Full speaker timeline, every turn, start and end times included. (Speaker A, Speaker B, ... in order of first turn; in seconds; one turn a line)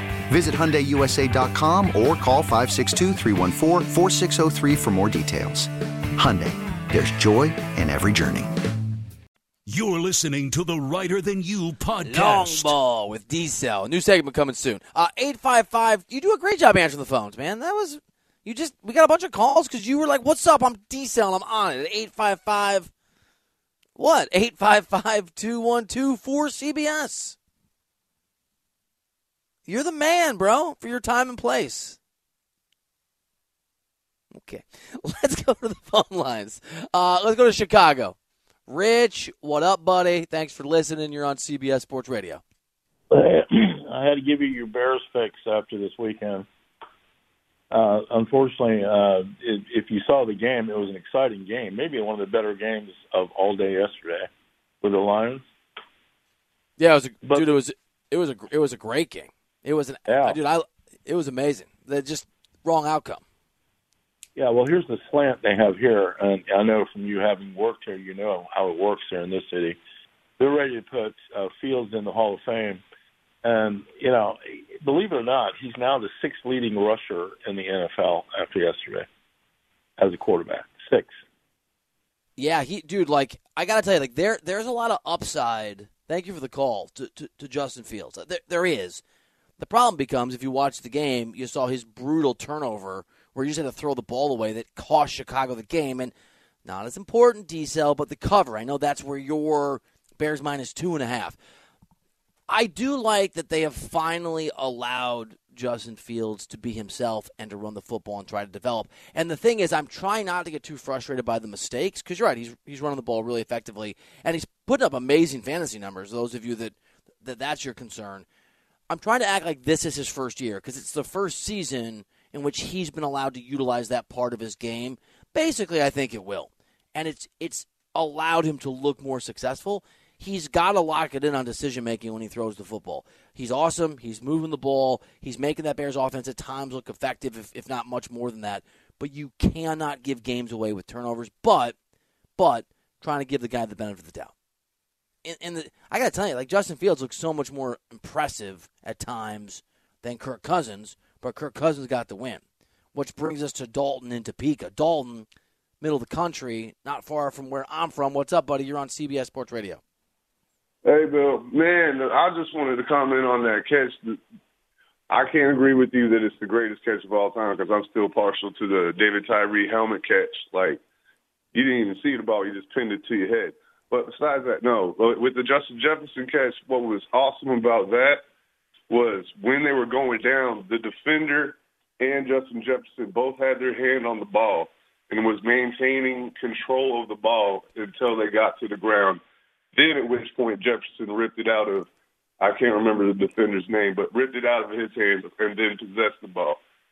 Speaker A: 0.3-8.5
Speaker B: 9.7-12.8
Speaker C: 12.0-22.9
Speaker C: 24.0-27.4
Speaker C: 29.7-32.0
Speaker C: 34.3-38.1
Speaker C: 38.7-42.4
Speaker D: 43.1-46.5
Speaker D: 47.7-54.3
Speaker D: 54.8-55.4
Speaker C: 56.8-63.2
Speaker D: 57.2-57.6
Speaker D: 60.1-60.4
Speaker D: 64.4-69.8
Speaker D: 70.4-72.8
Speaker D: 73.4-79.1
Speaker D: 80.0-81.1
Speaker C: 82.4-89.0
Speaker C: 89.6-96.1
Speaker C: 96.6-101.4
Speaker C: 102.5-118.2
Speaker C: 118.9-141.8
Speaker C: 142.4-144.3
Speaker C: 145.2-152.4
Speaker C: 152.9-155.3
Speaker C: 155.8-159.8
Speaker E: 160.8-164.2
Speaker E: 165.1-170.8
Speaker E: 171.5-178.2
Speaker E: 178.9-189.2
Speaker E: 189.7-191.9
Speaker E: 192.4-196.6